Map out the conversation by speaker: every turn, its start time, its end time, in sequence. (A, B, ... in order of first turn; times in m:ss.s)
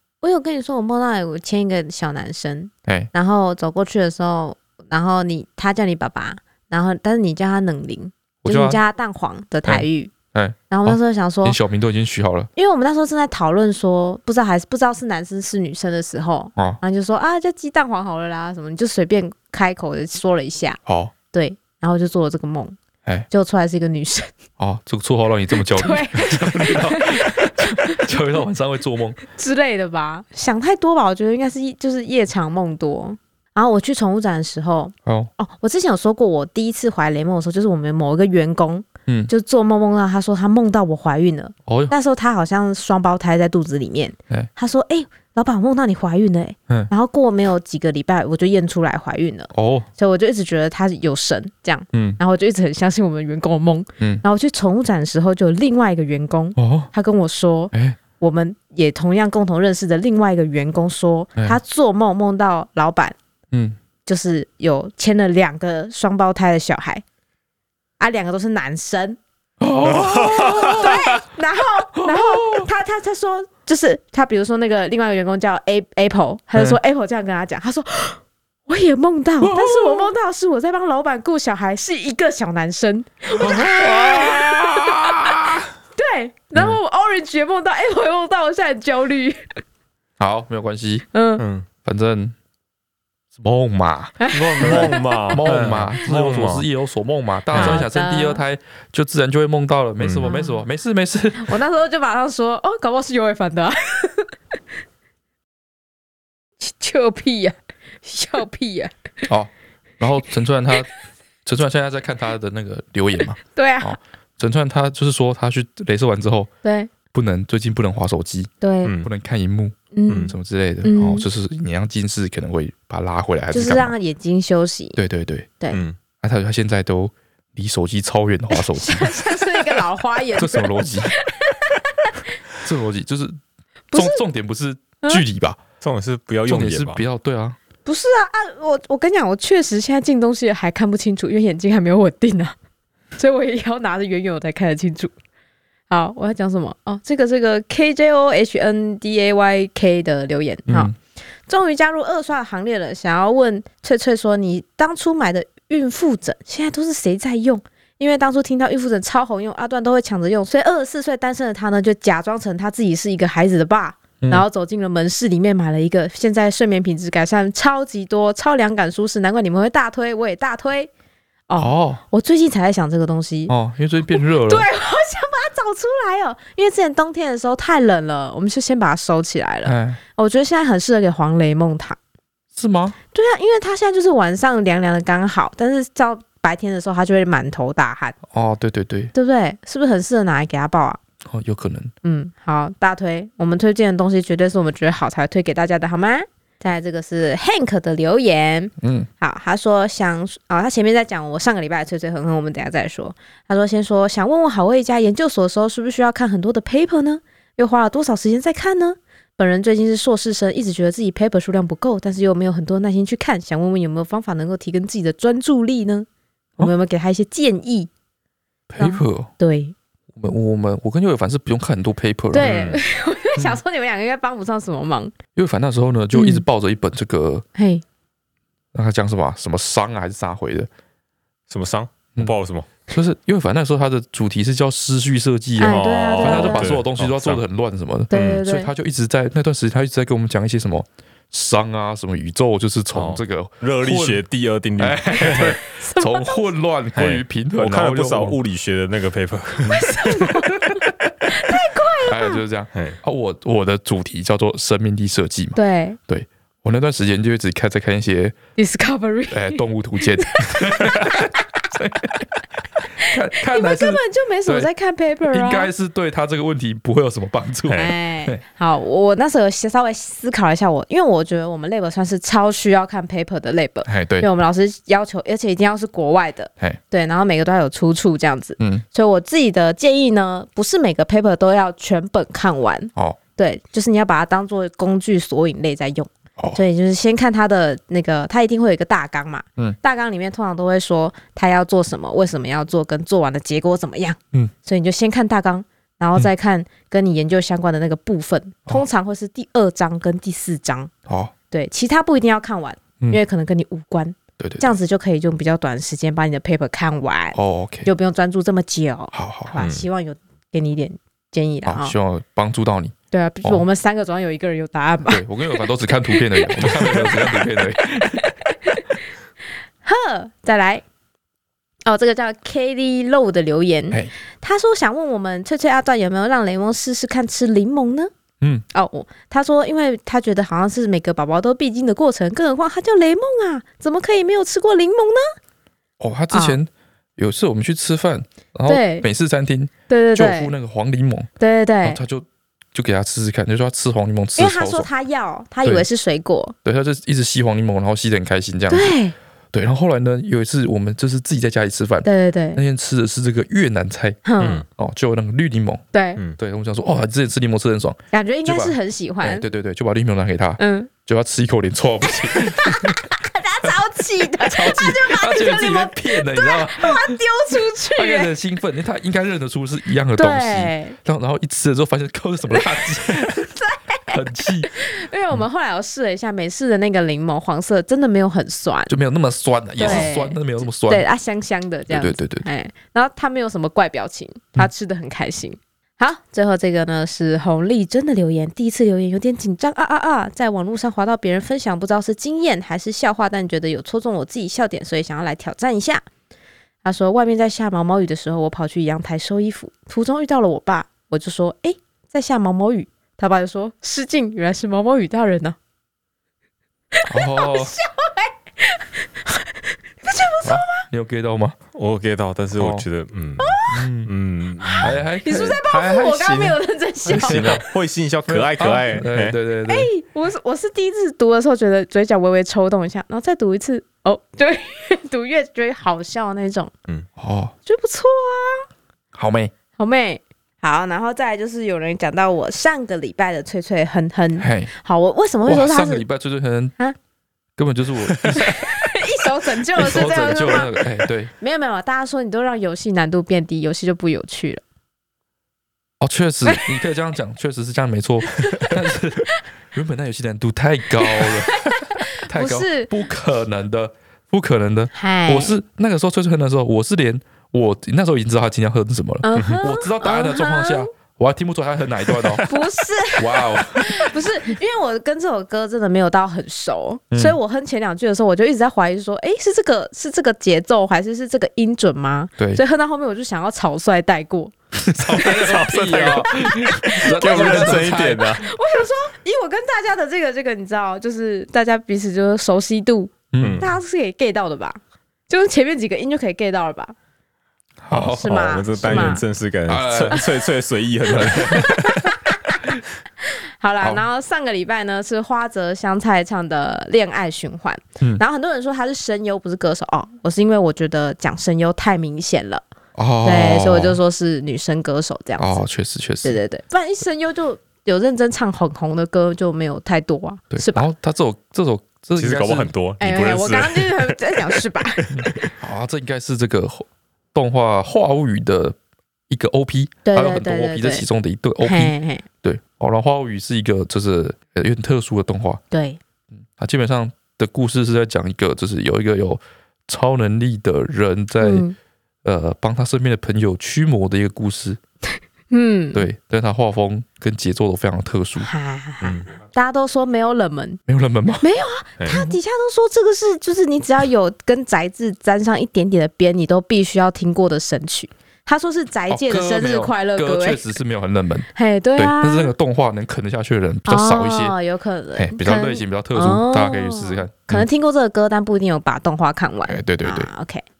0:00.2-0:10.1 A
0:02.8-0:03.1 B
0:08.4-0:08.8 B
0:09.6-0:12.5 B
0:10.7-0:11.6 A
0:12.6-0:20.8 A
0:20.8-0:21.1 B
0:21.3-0:22.8 A
0:23.3-0:24.3 A
0:24.6-0:29.2 B
0:25.6-0:28.2 A
0:29.3-1:03.2 A
0:35.0-0:35.3 B
0:41.6-0:41.9 B
0:49.5-0:49.9 B
0:51.9-0:52.2 B
0:56.6-0:56.9 B
0:57.7-0:58.0 B
1:03.5-1:03.8 B
1:04.0-1:07.0 A
1:08.0-1:09.2 A
1:09.6-1:11.2 B
1:09.8-1:10.7 C
1:10.3-1:29.6 A
1:12.0-1:12.7 B
1:19.4-1:20.1 B
1:23.4-1:25.7 B
1:30.2-1:31.0 B
1:31.1-1:31.4 A
1:31.4-1:31.6 C
1:31.8-1:32.3 B
1:33.3-1:41.6 B
1:34.2-1:35.6 A
1:34.3-1:36.6 C
1:37.5-1:37.8 C
1:37.5-1:38.4 A
1:40.0-1:40.3 C
1:40.2-1:40.6 A
1:41.4-1:44.3 A
1:46.6-1:49.3 A
1:49.2-1:50.9 B
1:51.4-1:56.5 B
1:53.5-1:54.0 A
1:56.6-1:56.9 A
1:57.1-2:03.9 B
1:58.6-1:58.9 A
1:59.9-2:00.3 A
2:00.8-2:01.2 A
2:03.5-2:05.0 A
2:05.0-2:05.5 B
2:05.7-2:06.0 C
2:06.2-2:09.4 B
2:08.5-2:12.2 A
2:10.3-2:11.1 B
2:12.6-2:13.4 B
2:13.9-2:14.2 A
2:13.9-2:15.6 B
2:15.8-2:17.0 C
2:16.4-2:17.6 B
2:17.8-2:22.5 A
2:23.2-2:25.1 A
2:25.9-2:30.9 A
2:30.7-2:30.9 B
2:31.5-2:50.9 A
2:51.5-2:53.5 A
2:51.6-2:52.0 B
2:53.5-2:54.7 B
2:54.1-3:02.0 A
2:59.6-3:00.0 B
3:02.5-3:03.0 B
3:03.1-3:08.2 A
3:08.3-3:09.1 B
3:09.1-3:11.0 A
3:11.2-3:11.9 B
3:12.0-3:36.1 A
3:18.8-3:19.1 B
3:36.6-3:37.9 A
3:38.7-3:39.3 B
3:38.8-3:39.7 A
3:40.1-3:42.6 B
3:42.3-3:45.1 A
3:42.4-3:42.8 C
3:45.3-3:47.4 B
3:46.1-3:46.4 A
3:47.5-3:47.8 A
3:48.7-3:50.7 B
3:51.5-3:52.7 C
3:52.9-4:04.2 B
3:55.6-3:56.7 A
3:55.7-3:57.4 C
3:58.1-3:58.7 A
3:58.1-3:58.4 C
4:02.9-4:05.6 C
4:04.8-4:08.4 B
4:05.2-4:06.5 A
4:07.0-4:09.8 C
4:09.7-4:12.4 A
4:10.1-4:10.9 B
4:12.0-4:18.4 B
4:15.5-4:16.0 A
4:18.6-4:21.4 A
4:19.3-4:22.3 B
4:23.0-4:24.7 B
4:23.0-4:25.7 A
4:25.3-4:28.4 B
4:27.7-4:27.9 C
4:27.7-5:00.9 A
4:33.8-4:34.3 B
4:38.6-4:38.8 B
5:01.1-5:01.3 B
5:01.5-5:11.9 A
5:04.4-5:04.7 B
5:07.3-5:07.9 B
5:09.1-5:09.6 B
5:09.6-5:09.8 C
5:11.6-5:13.6 B
5:13.1-5:17.4 A
5:15.1-5:18.3 B
5:18.1-5:18.9 A
5:19.8-5:20.8 A
5:21.8-5:28.1 A
5:28.7-5:35.3 A
5:36.0-5:41.3 B
5:36.3-5:36.6 A
5:38.7-5:39.0 A
5:39.9-5:40.5 A
5:41.4-5:42.0 A
5:41.8-5:44.9 B
5:44.4-5:46.5 A
5:46.6-5:48.9 B
5:48.7-5:49.1 A
5:49.5-5:55.8 B
5:52.0-5:52.6 A
5:54.2-5:54.6 A
5:54.4-5:54.6 C
5:55.9-5:56.2 A
5:56.4-6:03.0 B
5:58.1-5:59.4 A
6:00.6-6:00.9 A
6:02.2-6:08.3 A
6:04.4-6:07.2 B
6:07.9-6:13.5 B
6:10.2-6:11.0 A
6:13.6-6:14.1 A
6:14.1-6:14.7 B
6:14.7-6:19.0 A
6:18.9-6:21.0 B
6:19.8-6:36.0 A
6:19.8-6:20.1 C
6:21.9-6:22.4 B
6:36.8-6:45.6 A
6:47.0-6:50.9 A
6:47.1-6:47.7 B
6:50.4-6:51.6 B
6:51.7-6:55.0 C
6:52.5-6:52.8 B
6:53.4-6:53.8 A
6:53.7-6:54.1 B
6:54.6-6:57.6 A
6:54.8-6:55.6 B
6:55.7-6:59.4 C
6:57.1-6:57.6 B
6:58.3-6:59.9 B
6:59.7-7:06.7 A
7:07.2-7:07.5 B
7:07.6-7:08.7 A
7:09.1-7:09.5 B
7:09.8-7:16.0 A
7:14.4-7:14.7 B
7:15.4-7:16.7 B
7:17.6-7:18.8 B
7:18.4-7:20.8 A
7:19.7-7:21.3 B
7:21.4-7:24.6 A
7:26.0-7:42.6 B
7:28.4-7:28.7 A
7:31.0-7:32.9 A
7:34.9-7:35.6 A
7:39.2-7:40.9 A
7:42.4-7:54.5 A
7:43.2-7:44.2 B
7:47.1-7:47.4 B
7:54.9-7:58.3 B
7:55.1-7:58.4 C
7:55.1-7:55.6 A
7:56.2-8:06.9 A
8:03.3-8:03.6 B
8:03.4-8:03.7 C
8:07.8-8:10.2 B
8:07.9-8:12.1 C
8:08.1-8:09.2 A
8:11.1-8:11.7 B
8:11.1-8:12.5 A
8:13.2-8:22.6 A
8:23.0-8:24.0 B
8:23.2-8:25.6 A
8:25.4-8:26.4 B
8:26.2-8:30.9 A
8:30.5-8:32.7 B
8:32.2-8:35.5 C
8:33.0-8:35.5 A
8:35.1-8:38.8 B
8:39.3-8:45.6 B
8:40.0-8:41.0 A
8:41.6-8:42.2 A
8:45.7-8:46.0 A
8:46.5-8:51.6 B
8:51.4-8:51.7 A
8:52.2-8:54.8 B
8:55.5-8:56.1 A
8:55.9-8:58.5 B
8:58.4-9:00.8 A
8:59.0-8:59.3 C
9:00.9-9:01.4 B
9:01.4-9:10.6 A
9:02.0-9:02.3 C
9:09.1-9:14.5 B
9:11.5-9:12.5 A
9:13.8-9:20.6 A
9:15.2-9:17.6 B
9:19.6-9:20.3 B